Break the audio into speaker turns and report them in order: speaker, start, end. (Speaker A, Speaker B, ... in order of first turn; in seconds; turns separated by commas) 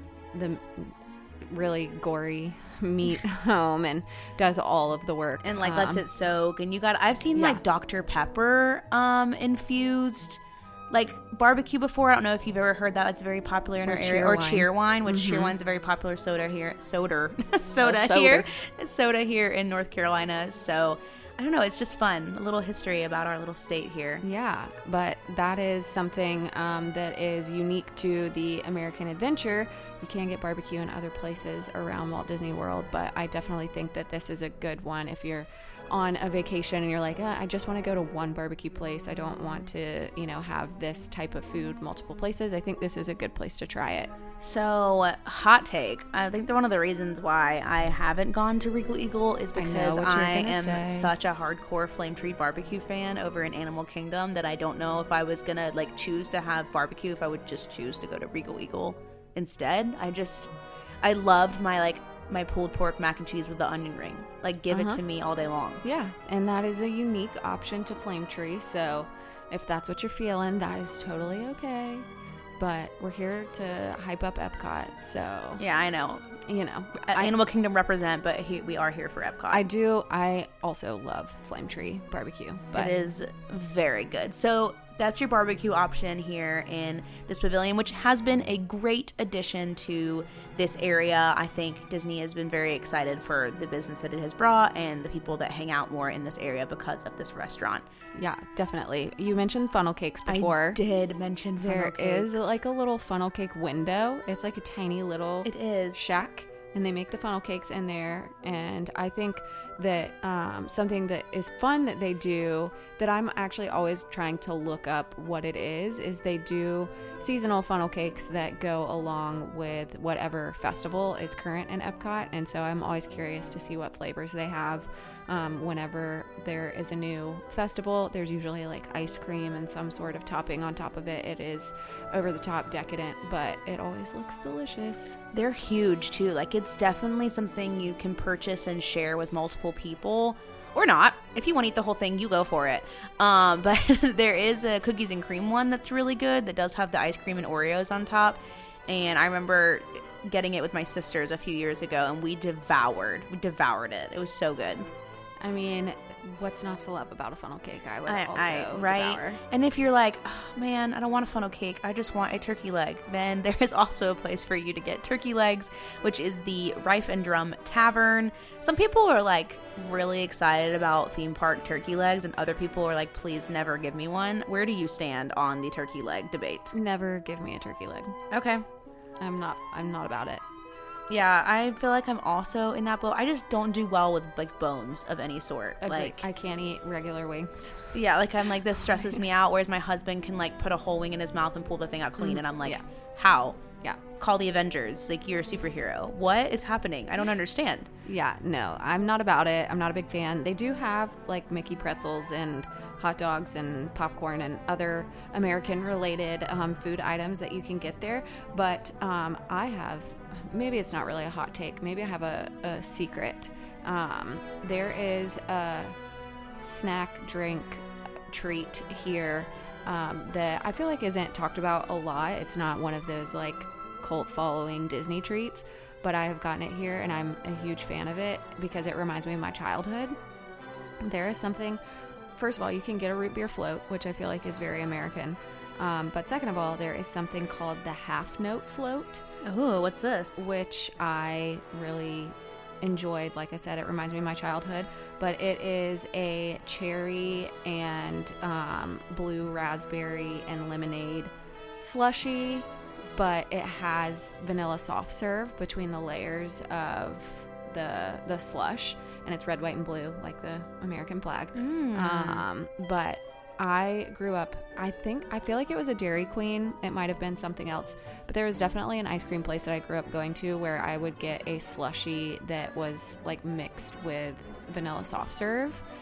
Speaker A: 0.3-6.0, Speaker B: 5.4-24.2, Speaker A: 7.3-7.6, Speaker A: 13.8-15.5, Speaker A: 17.8-18.5, Speaker A: 24.2-44.1, Speaker B: 44.4-65.8, Speaker A: 49.5-51.1, Speaker A: 64.7-65.0, Speaker A: 65.8-72.1, Speaker A: 72.6-75.6, Speaker B: 75.6-76.3, Speaker A: 76.5-77.3, Speaker B: 77.1-79.6, Speaker A: 79.5-82.9, Speaker B: 82.7-97.9, Speaker A: 98.1-100.8, Speaker B: 100.3-102.6, Speaker A: 101.6-135.2, Speaker B: 105.4-106.2, Speaker B: 135.3-154.9, Speaker A: 155.4-159.4, Speaker B: 158.1-176.7, Speaker A: 176.7-178.2, Speaker B: 178.3-178.6, Speaker A: 179.2-180.4, Speaker B: 181.1-186.2, Speaker A: 185.8-187.9, Speaker B: 187.9-193.6, Speaker A: 192.2-192.8, Speaker B: 194.2-197.9, Speaker A: 198.1-215.9, Speaker A: 216.6-230.2, Speaker A: 231.0-231.8, Speaker A: 232.4-239.2, Speaker B: 239.4-240.5, Speaker A: 240.4-275.8, Speaker B: 261.6-262.4